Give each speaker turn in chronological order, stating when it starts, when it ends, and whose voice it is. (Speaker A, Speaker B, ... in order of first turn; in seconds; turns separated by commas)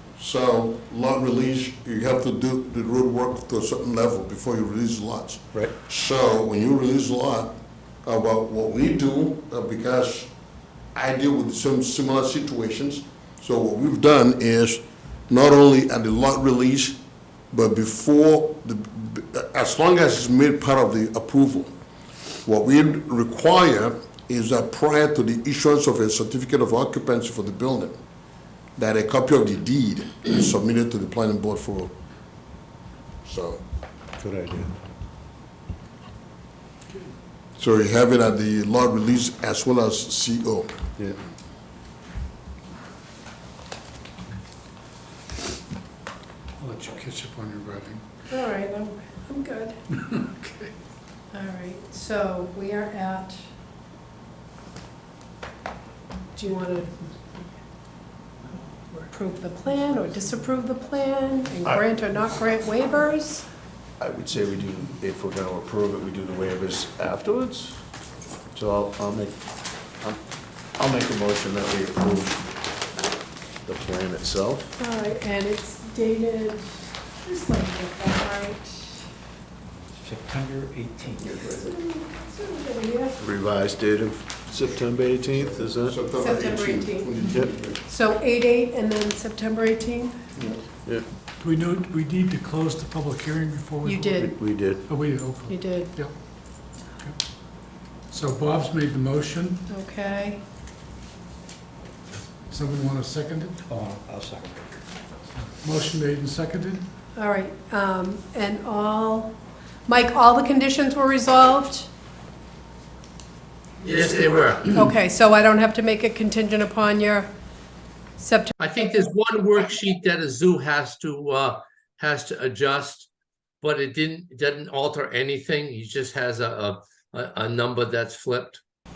Speaker A: 0.2-7.5, Speaker A: 8.0-10.3, Speaker A: 10.9-17.0, Speaker A: 17.5-21.7, Speaker A: 22.4-28.0, Speaker A: 28.8-31.9, Speaker A: 33.2-33.6, Speaker B: 34.2-34.8, Speaker A: 37.6-40.7, Speaker C: 46.6-48.0, Speaker D: 48.3-49.8, Speaker C: 50.0-50.7, Speaker D: 51.3-53.5, Speaker D: 56.3-57.0, Speaker D: 59.0-63.4, Speaker B: 64.0-67.8, Speaker B: 68.5-69.4, Speaker B: 70.8-72.4, Speaker B: 73.6-74.7, Speaker D: 74.8-76.7, Speaker D: 77.2-79.0, Speaker E: 80.0-81.3, Speaker D: 81.3-83.2, Speaker B: 83.2-86.0, Speaker A: 85.3-87.8, Speaker D: 86.2-87.1, Speaker D: 87.8-90.2, Speaker C: 91.4-94.3, Speaker D: 93.8-94.3, Speaker B: 94.2-94.8, Speaker C: 94.8-96.1, Speaker D: 95.5-95.9, Speaker C: 98.1-99.6, Speaker D: 99.7-100.4, Speaker C: 102.5-103.6, Speaker E: 103.7-104.6, Speaker C: 105.6-106.8, Speaker D: 107.1-111.9, Speaker F: 113.8-114.8, Speaker D: 114.7-117.3, Speaker D: 118.2-118.5, Speaker F: 118.6-123.1, Speaker F: 123.6-128.6